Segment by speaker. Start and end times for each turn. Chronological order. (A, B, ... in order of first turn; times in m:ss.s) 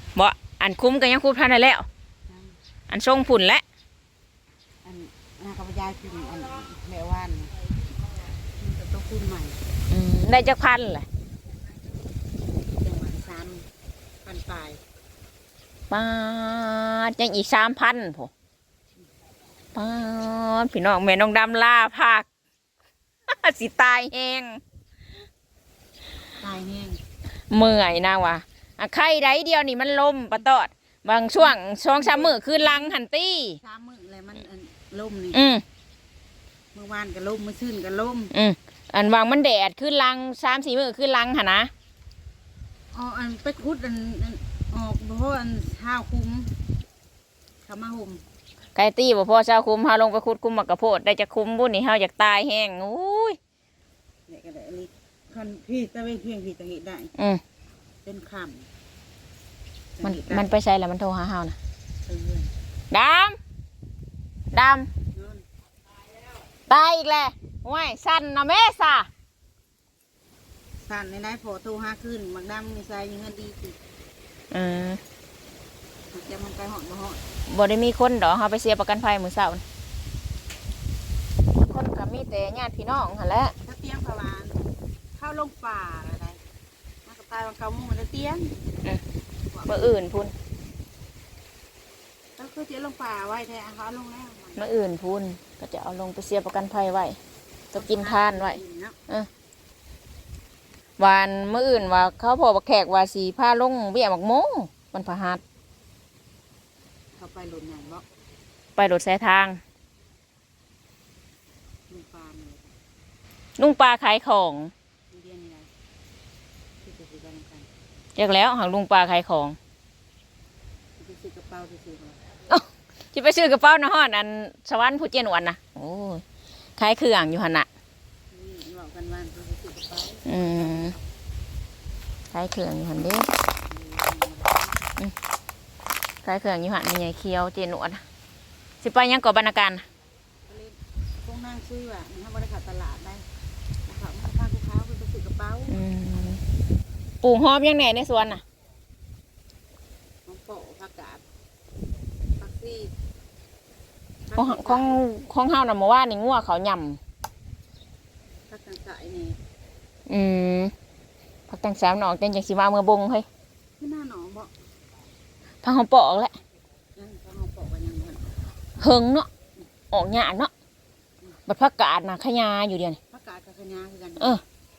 0:00.2-0:01.9 A
0:02.3-0:02.6 B
0:02.9-0:03.6 A
0:04.8-0:07.6 B
0:08.5-0:09.6 B
0:09.9-0:11.1 A
0:12.7-0:13.7 B
0:14.2-0:14.8 B
0:15.9-0:18.3 A
0:19.7-0:22.3 A
0:23.3-0:24.6 A
0:26.4-0:27.0 B
0:27.5-0:33.6 A
0:31.9-0:33.0 B
0:33.6-0:35.4 B
0:35.3-0:35.6 A
0:36.7-0:38.3 B
0:38.3-0:41.7 A
0:42.9-0:46.5 B
0:47.7-0:48.2 B
0:48.8-0:53.4 A
0:54.3-0:57.1 B
0:57.2-0:57.4 A
0:58.0-0:58.7 B
1:00.0-1:00.5 B
1:00.0-1:01.6 A
1:02.1-1:02.5 B
1:02.9-1:03.4 A
1:04.5-1:04.9 A
1:05.1-1:05.4 B
1:06.7-1:09.1 A
1:10.8-1:13.8 B
1:14.5-1:15.0 A
1:16.1-1:17.2 B
1:17.5-1:19.6 A
1:21.6-1:23.6 A
1:23.6-1:24.6 B
1:25.2-1:26.4 B
1:27.1-1:28.6 B
1:29.5-1:30.0 B
1:29.7-1:30.3 A
1:32.4-1:34.8 B
1:34.6-1:37.2 A
1:37.7-1:39.0 B
1:37.7-1:39.3 A
1:41.0-1:45.4 A
1:47.2-1:48.0 B
1:48.8-1:49.6 A
1:51.9-1:52.8 B
1:53.6-1:54.7 A
1:55.1-1:55.7 B
1:56.8-1:57.7 B
1:58.2-1:59.6 A
2:01.0-2:02.2 B
2:02.5-2:06.2 A
2:06.8-2:07.7 A
2:08.3-2:11.0 B
2:10.3-2:11.0 A
2:12.3-2:13.3 A
2:13.7-2:14.9 B
2:16.2-2:18.0 A
2:18.8-2:19.8 A
2:20.5-2:23.2 B
2:23.9-2:25.8 B
2:25.7-2:26.4 A
2:27.2-2:28.4 A
2:30.3-2:31.2 B
2:32.4-2:32.9 B
2:34.3-2:35.0 B
2:34.4-2:37.0 A
2:38.5-2:39.4 B
2:40.1-2:40.7 A
2:41.5-2:43.2 A
2:43.8-2:44.5 B
2:45.6-2:46.4 A
2:47.0-2:48.3 B
2:48.8-2:49.3 A
2:49.9-2:50.5 A
2:51.5-2:53.0 A
2:53.1-2:54.4 B